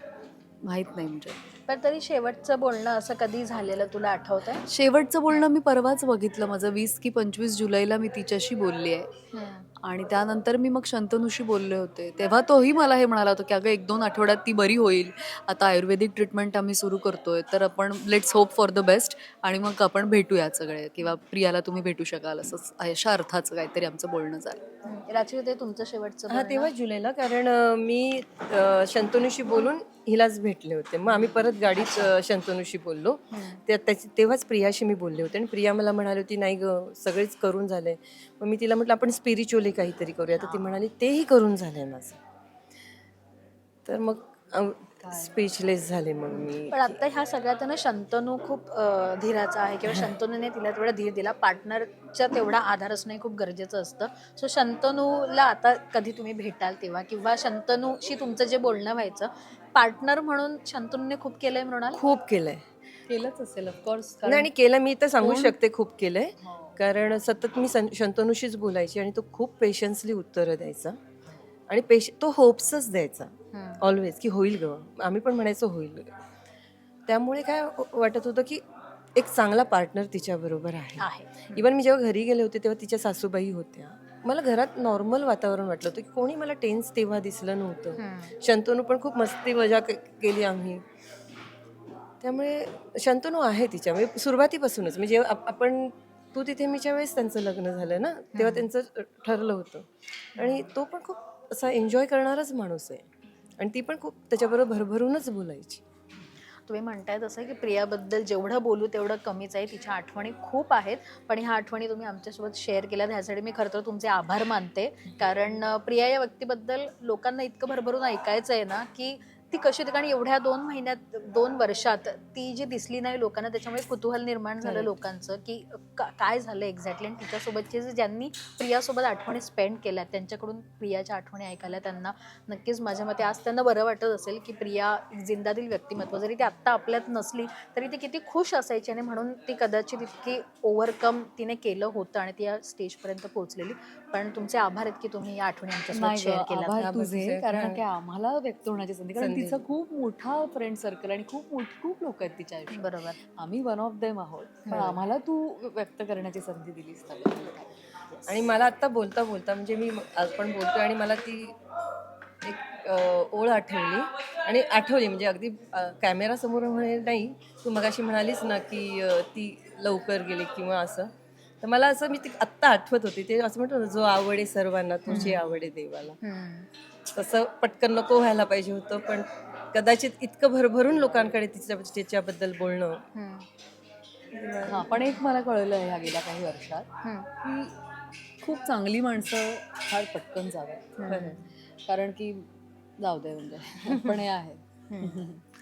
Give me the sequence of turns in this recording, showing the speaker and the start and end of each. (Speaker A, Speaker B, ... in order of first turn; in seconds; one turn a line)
Speaker A: 0.6-1.4
Speaker B: 1.7-4.7
Speaker A: 4.7-9.1
Speaker B: 9.3-9.7
Speaker A: 9.8-24.6
Speaker B: 24.9-26.7
Speaker C: 26.3-42.2
Speaker B: 31.2-32.1
Speaker B: 33.3-33.6
Speaker B: 40.4-40.8
Speaker C: 43.9-47.0
Speaker A: 45.0-45.4
Speaker B: 46.3-62.0
Speaker C: 61.9-62.6
Speaker A: 63.1-64.5
Speaker C: 64.2-71.0
Speaker A: 65.2-65.6
Speaker B: 66.5-66.8
Speaker C: 71.7-76.2
Speaker B: 73.5-73.8
Speaker C: 77.1-78.6
Speaker C: 79.2-90.8
Speaker B: 81.0-81.7
Speaker B: 88.0-88.4
Speaker C: 92.2-103.1
Speaker B: 98.3-98.7
Speaker B: 100.4-100.7
Speaker C: 103.6-105.8
Speaker B: 106.7-146.8
Speaker C: 124.6-124.9
Speaker A: 145.9-157.7
Speaker C: 146.8-147.8
Speaker C: 149.2-149.6
Speaker B: 152.7-153.2
Speaker B: 154.7-155.0
Speaker B: 158.1-158.4
Speaker C: 158.3-161.6
Speaker C: 162.4-176.2
Speaker B: 175.1-175.4
Speaker A: 175.1-175.4
Speaker B: 176.2-176.7
Speaker C: 177.1-183.0
Speaker B: 183.2-183.5
Speaker C: 184.3-185.0
Speaker A: 184.7-186.9
Speaker B: 187.0-187.3
Speaker A: 187.4-187.8
Speaker A: 188.4-190.9
Speaker B: 191.0-191.4
Speaker C: 191.1-191.4
Speaker A: 191.7-192.5
Speaker A: 193.0-195.4
Speaker C: 193.9-194.2
Speaker B: 194.9-195.2